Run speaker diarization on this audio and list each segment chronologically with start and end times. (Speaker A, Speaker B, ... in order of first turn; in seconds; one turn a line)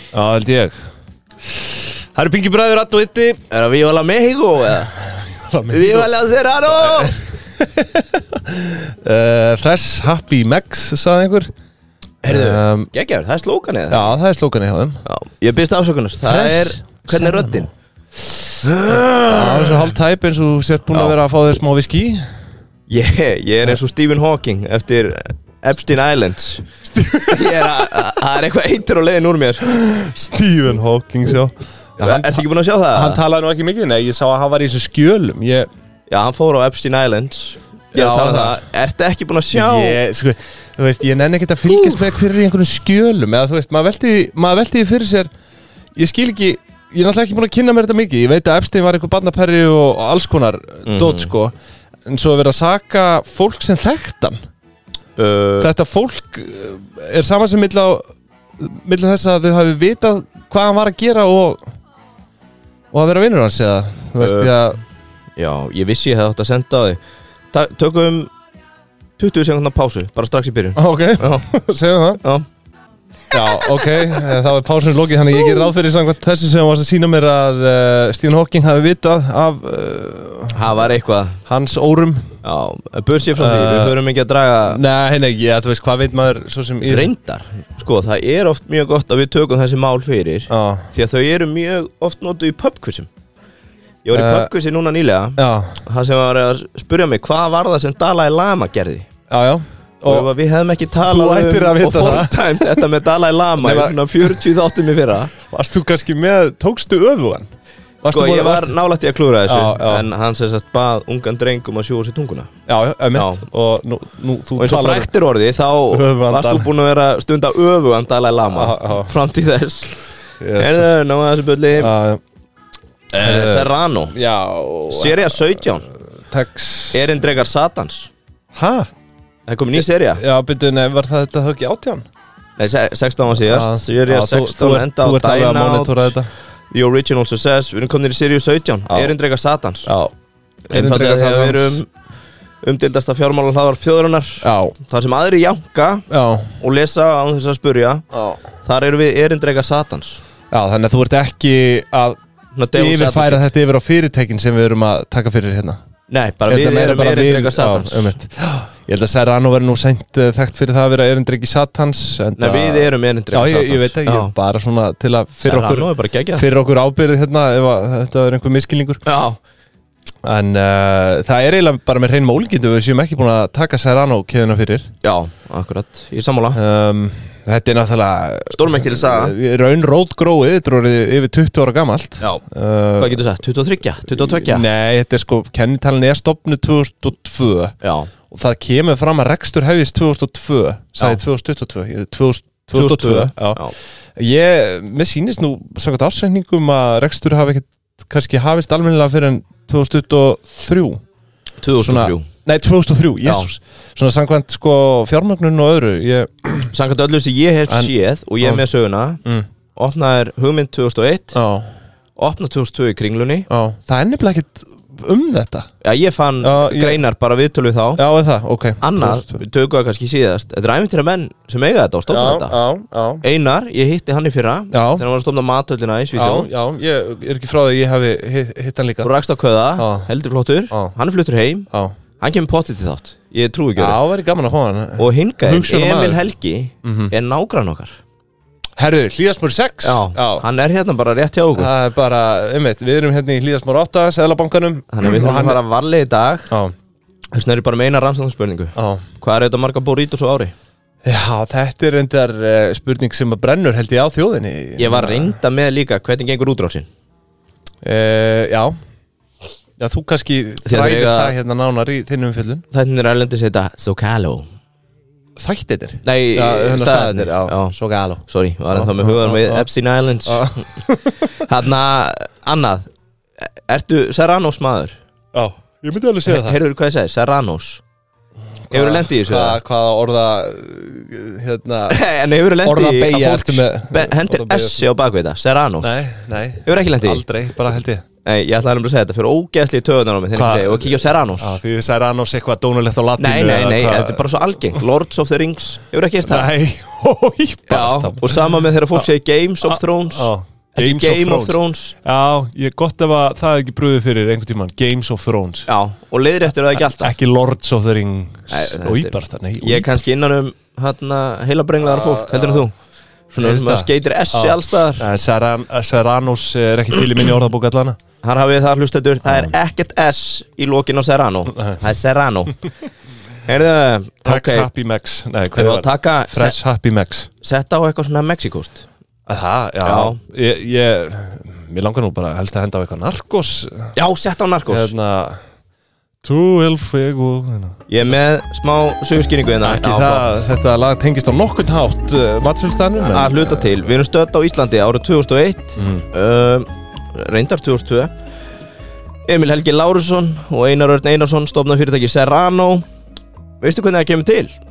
Speaker A: 0.1-0.8
Speaker A: 1.4-3.4
Speaker B: 3.5-4.9
Speaker A: 4.9-6.1
Speaker B: 5.7-7.2
Speaker A: 6.7-11.5
Speaker B: 12.2-14.1
Speaker A: 12.2-12.9
Speaker A: 13.9-15.0
Speaker B: 15.1-17.7
Speaker A: 16.2-17.6
Speaker A: 18.2-22.3
Speaker B: 18.6-20.0
Speaker B: 22.9-26.7
Speaker A: 26.9-28.1
Speaker B: 27.3-29.7
Speaker A: 29.6-35.7
Speaker B: 32.0-33.2
Speaker B: 36.1-40.0
Speaker A: 37.9-38.6
Speaker A: 39.5-45.3
Speaker B: 41.7-42.1
Speaker A: 46.0-51.5
Speaker B: 50.9-51.3
Speaker A: 52.1-54.4
Speaker B: 55.2-55.7
Speaker A: 55.6-58.0
Speaker A: 58.6-61.6
Speaker A: 62.9-64.8
Speaker B: 64.2-64.6
Speaker B: 65.4-67.0
Speaker B: 67.5-68.3
Speaker B: 69.2-71.5
Speaker A: 70.8-72.2
Speaker B: 72.2-72.5
Speaker A: 73.3-80.8
Speaker B: 73.6-73.9
Speaker B: 80.5-81.4
Speaker A: 81.5-82.3
Speaker B: 82.4-84.8
Speaker A: 83.3-84.0
Speaker A: 84.7-87.1
Speaker B: 86.8-93.1
Speaker A: 90.5-90.9
Speaker B: 94.0-99.1
Speaker A: 94.1-94.5
Speaker A: 95.4-95.8
Speaker A: 99.3-100.3
Speaker B: 100.0-105.3
Speaker A: 100.9-102.8
Speaker A: 103.6-104.5
Speaker A: 105.5-107.5
Speaker A: 108.0-108.7
Speaker B: 108.1-112.5
Speaker A: 109.5-110.1
Speaker A: 112.7-115.1
Speaker B: 113.1-113.4
Speaker B: 114.6-120.0
Speaker A: 115.9-116.7
Speaker A: 118.5-119.1
Speaker A: 120.4-120.9
Speaker B: 120.6-121.9
Speaker A: 121.8-122.2
Speaker B: 123.1-124.2
Speaker A: 123.2-125.7
Speaker B: 124.9-125.9
Speaker A: 126.3-127.2
Speaker B: 126.9-128.1
Speaker A: 128.5-128.9
Speaker B: 129.5-130.2
Speaker A: 129.7-132.1
Speaker B: 132.6-136.2
Speaker A: 133.5-136.3
Speaker B: 136.7-140.0
Speaker A: 139.9-140.1
Speaker A: 140.7-141.8
Speaker B: 140.7-141.9
Speaker B: 142.6-146.1
Speaker A: 144.4-144.8
Speaker A: 146.1-146.6
Speaker B: 146.6-148.1
Speaker A: 148.1-148.4
Speaker B: 148.6-150.2
Speaker A: 150.5-152.2
Speaker B: 152.6-153.5
Speaker A: 152.7-155.8
Speaker B: 156.1-158.1
Speaker A: 156.5-169.0
Speaker B: 162.4-164.3
Speaker B: 165.4-166.4
Speaker B: 169.1-169.4
Speaker A: 170.2-174.9
Speaker B: 175.0-176.6
Speaker A: 176.5-183.2
Speaker B: 178.5-179.4
Speaker B: 183.0-184.7
Speaker A: 184.1-187.8
Speaker B: 187.8-188.1
Speaker A: 188.3-193.6
Speaker B: 192.7-193.8
Speaker A: 194.2-201.0
Speaker B: 201.6-202.3
Speaker A: 201.8-206.7
Speaker B: 206.7-209.2
Speaker A: 207.7-208.6
Speaker B: 209.8-211.4
Speaker A: 211.3-211.7
Speaker B: 212.2-213.5
Speaker A: 213.5-215.7
Speaker B: 215.8-218.0
Speaker A: 216.4-217.0
Speaker A: 218.0-219.4
Speaker B: 218.8-222.6
Speaker A: 222.1-223.2
Speaker B: 223.2-226.5
Speaker A: 224.7-225.0
Speaker A: 226.1-229.1
Speaker B: 229.0-231.7
Speaker A: 229.8-230.1
Speaker B: 232.2-234.0
Speaker A: 233.8-236.2
Speaker B: 235.0-238.0
Speaker A: 236.8-237.1
Speaker A: 238.8-240.4
Speaker B: 239.8-241.7
Speaker A: 241.6-245.6
Speaker B: 244.9-246.5
Speaker B: 247.3-250.5
Speaker A: 248.8-249.0
Speaker A: 251.1-255.4
Speaker B: 254.8-256.9
Speaker A: 257.8-258.7
Speaker A: 259.8-262.6
Speaker B: 260.6-261.4
Speaker B: 262.7-264.5
Speaker A: 265.4-269.7
Speaker B: 266.0-270.7
Speaker A: 270.2-271.5
Speaker B: 271.4-272.9
Speaker B: 273.4-274.9
Speaker A: 275.3-276.6
Speaker B: 276.2-277.8
Speaker A: 278.7-282.0
Speaker B: 278.7-279.6
Speaker B: 281.9-286.0
Speaker A: 282.6-284.8
Speaker A: 285.8-288.0
Speaker B: 286.6-287.2
Speaker B: 288.2-291.6
Speaker A: 290.4-294.2
Speaker B: 293.2-296.5
Speaker A: 296.2-299.1
Speaker B: 297.7-301.9
Speaker A: 299.6-305.7
Speaker B: 305.7-307.2
Speaker A: 306.7-309.9
Speaker B: 308.5-312.7
Speaker A: 311.8-312.7
Speaker B: 313.3-315.1
Speaker A: 313.4-318.0
Speaker B: 318.2-322.6
Speaker A: 319.3-319.5
Speaker A: 321.5-321.8
Speaker B: 323.4-324.7
Speaker A: 324.2-327.3
Speaker B: 325.6-326.6
Speaker B: 327.4-328.9
Speaker A: 329.3-333.9
Speaker B: 329.8-330.2
Speaker B: 334.0-334.9
Speaker A: 334.7-335.4
Speaker A: 336.2-337.8
Speaker B: 337.9-340.3
Speaker A: 339.6-343.7
Speaker B: 343.0-348.1
Speaker A: 345.8-346.1
Speaker B: 349.3-352.8
Speaker B: 353.6-354.6